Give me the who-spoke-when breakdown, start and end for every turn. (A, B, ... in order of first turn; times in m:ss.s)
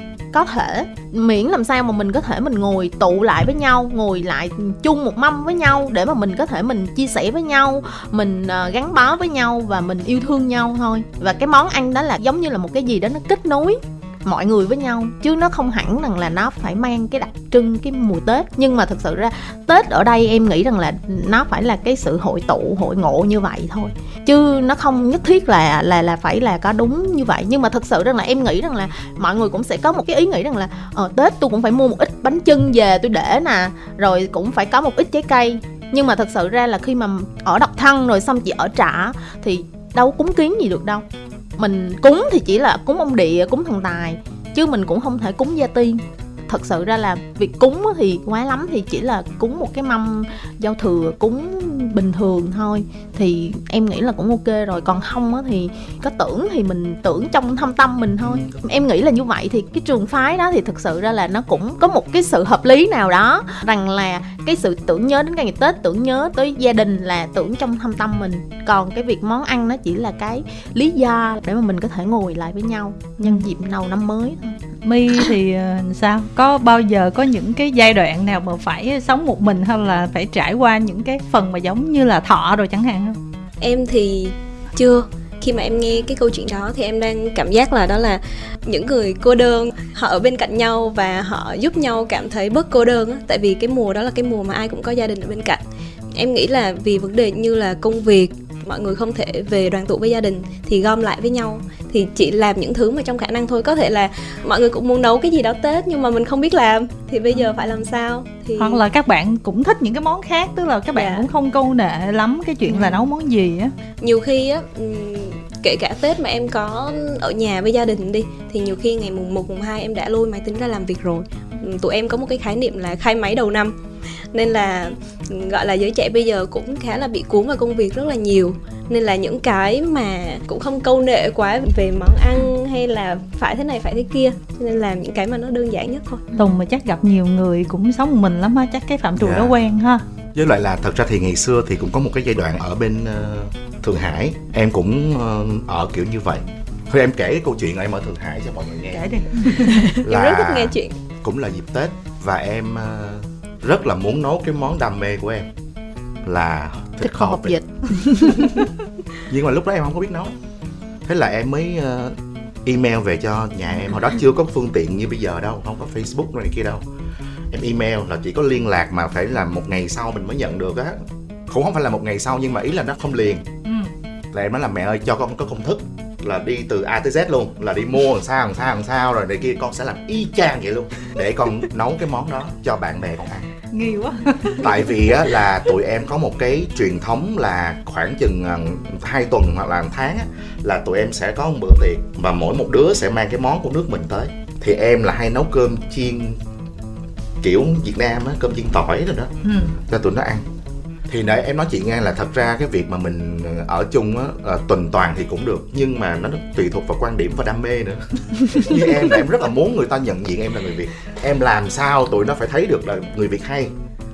0:00.3-0:41.0 A
0:41.6-1:14.6 A
0:58.2-0:58.6 B
1:14.8-1:23.2 C
1:23.6-1:35.6 D
1:36.2-1:48.8 D
1:48.6-1:53.7 C
1:51.0-1:51.3 D
1:52.7-1:53.0 D
1:54.0-2:03.8 D
2:04.3-2:16.3 D
2:16.4-2:20.0 C
2:19.2-2:19.6 B
2:20.4-2:35.5 B
2:28.9-2:29.9 C
2:29.6-2:30.0 A
2:29.8-2:30.9 D
2:36.2-2:37.6 B
2:37.0-2:38.7 A
2:39.3-2:40.3 B
2:41.1-2:46.8 B
2:47.5-2:53.5 B
2:53.6-2:53.9 C
2:54.3-3:03.5 B
3:03.7-3:04.7 C
3:04.6-3:16.4 B
3:17.4-3:20.4 B
3:19.4-3:19.8 C
3:21.1-3:33.7 B